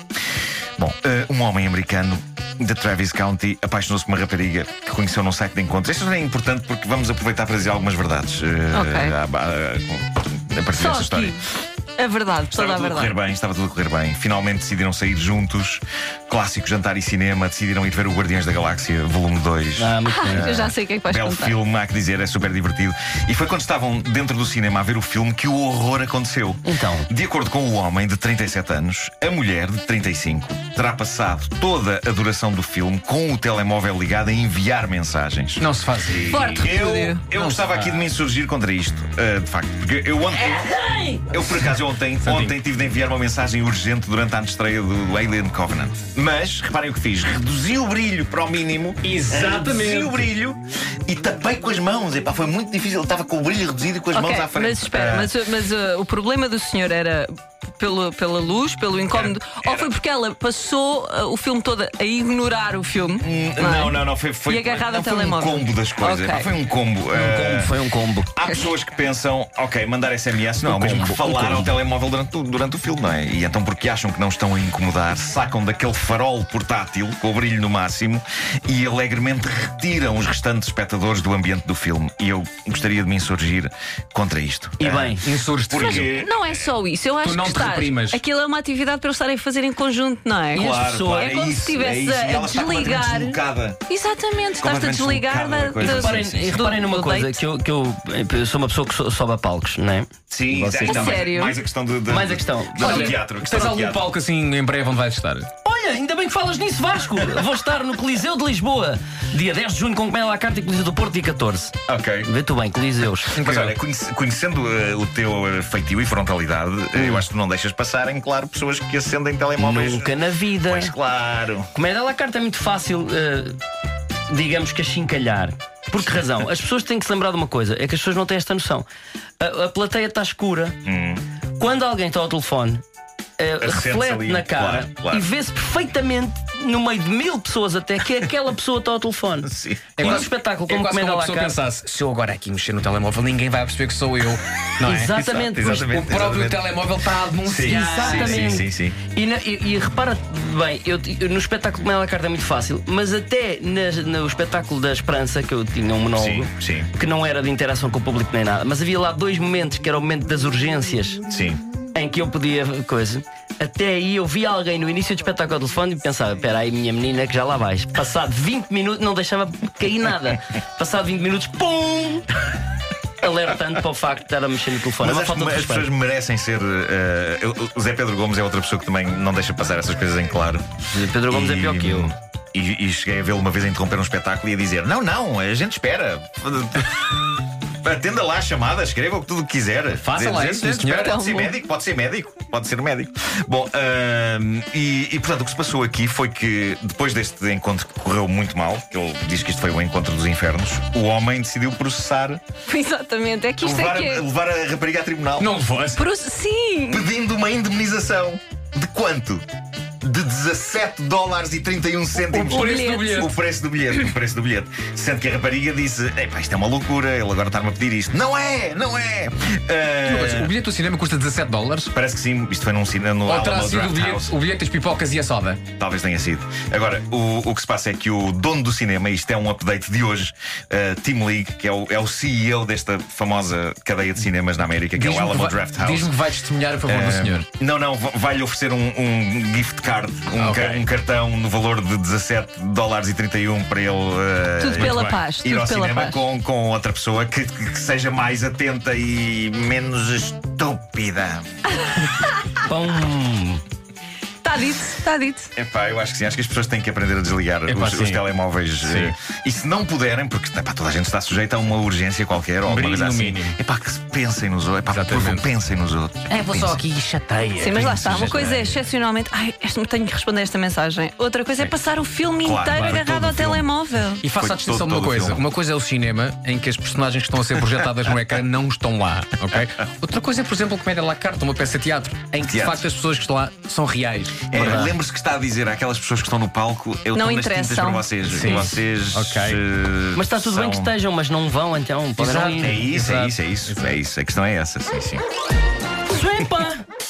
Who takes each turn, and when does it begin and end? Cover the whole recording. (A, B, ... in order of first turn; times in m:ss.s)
0:00.8-0:11.4 A
0:08.7-0:09.1 B
0:10.8-0:13.1 B
0:12.5-0:40.6 A
0:19.8-0:20.6 C
0:20.0-0:21.6 B
0:26.6-0:27.1 C
0:35.6-0:36.8 D
0:36.3-0:37.2 B
0:37.3-0:38.1 D
0:41.3-0:55.4 A
0:42.2-0:42.5 D
0:49.0-0:50.3 D
0:54.1-1:06.5 B
0:59.1-0:59.9 A
1:03.2-1:07.7 A
1:07.1-1:08.3 C
1:08.3-1:26.7 A
1:08.4-1:08.7 B
1:10.6-1:11.7 C
1:24.8-1:25.2 C
1:25.2-1:26.1 D
1:25.7-1:37.4 B
1:27.2-1:28.2 D
1:30.5-1:33.8 A
1:30.5-1:31.5 C
1:34.6-1:36.6 A
1:35.8-1:41.3 C
1:40.3-1:44.1 A
1:40.8-1:41.6 B
1:42.1-1:43.2 C
1:42.8-1:45.5 D
1:45.6-1:53.4 C
1:51.9-1:52.3 A
1:53.3-1:53.7 D
1:53.4-2:00.1 A
1:56.9-1:57.2 C
1:59.6-2:00.9 C
2:00.6-2:01.7 A
2:01.7-2:03.6 C
2:04.3-2:08.8 C
2:09.4-2:10.8 C
2:10.8-2:11.2 A
2:11.6-2:12.8 C
2:13.4-2:21.6 C
2:13.6-2:15.3 A
2:19.4-2:20.3 A
2:20.0-2:28.6 D
2:24.8-2:25.7 C
2:25.2-2:26.7 A
2:27.4-2:29.0 A
2:27.6-2:41.2 C
2:36.1-2:36.9 A
2:41.3-2:41.6 A
2:41.9-2:52.3 C
2:53.2-2:55.9 C
2:55.0-3:00.6 A
3:00.9-3:02.1 C
3:01.3-3:22.4 A
3:10.0-3:11.2 D
3:10.9-3:11.5 B
3:22.6-3:24.2 B
3:23.6-3:25.5 A
3:25.4-3:26.0 D
3:26.0-3:27.1 B
3:26.9-3:29.4 A
3:30.0-3:40.5 A
3:32.2-3:33.3 D
3:32.3-3:33.3 B
3:40.0-3:41.9 D
3:41.9-3:44.4 A
3:43.2-3:45.6 D
3:45.8-3:56.2 A
3:54.9-3:57.4 D
3:56.8-4:11.9 A
4:00.4-4:00.8 D
4:04.6-4:06.2 B
4:04.8-4:05.2 D
4:12.6-4:13.6 C
4:14.4-4:15.5 B
4:15.6-4:26.8 A
4:17.6-4:18.2 D
4:18.8-4:19.1 D
4:22.6-4:23.6 D
4:24.9-4:25.4 D
4:26.3-4:28.6 D
4:27.6-4:34.2 B
4:27.8-4:28.8 A
4:32.4-4:33.7 A
4:32.7-4:33.1 D
4:34.2-4:44.9 D
4:34.3-4:35.4 A
4:42.4-4:42.8 A
4:44.5-4:50.9 A
4:44.5-4:44.9 C
4:47.1-4:48.7 B
4:48.3-4:49.6 D
4:50.1-4:53.4 C
4:52.2-4:52.8 D
4:52.5-4:55.2 A
4:53.6-4:53.9 D
4:56.1-4:56.8 C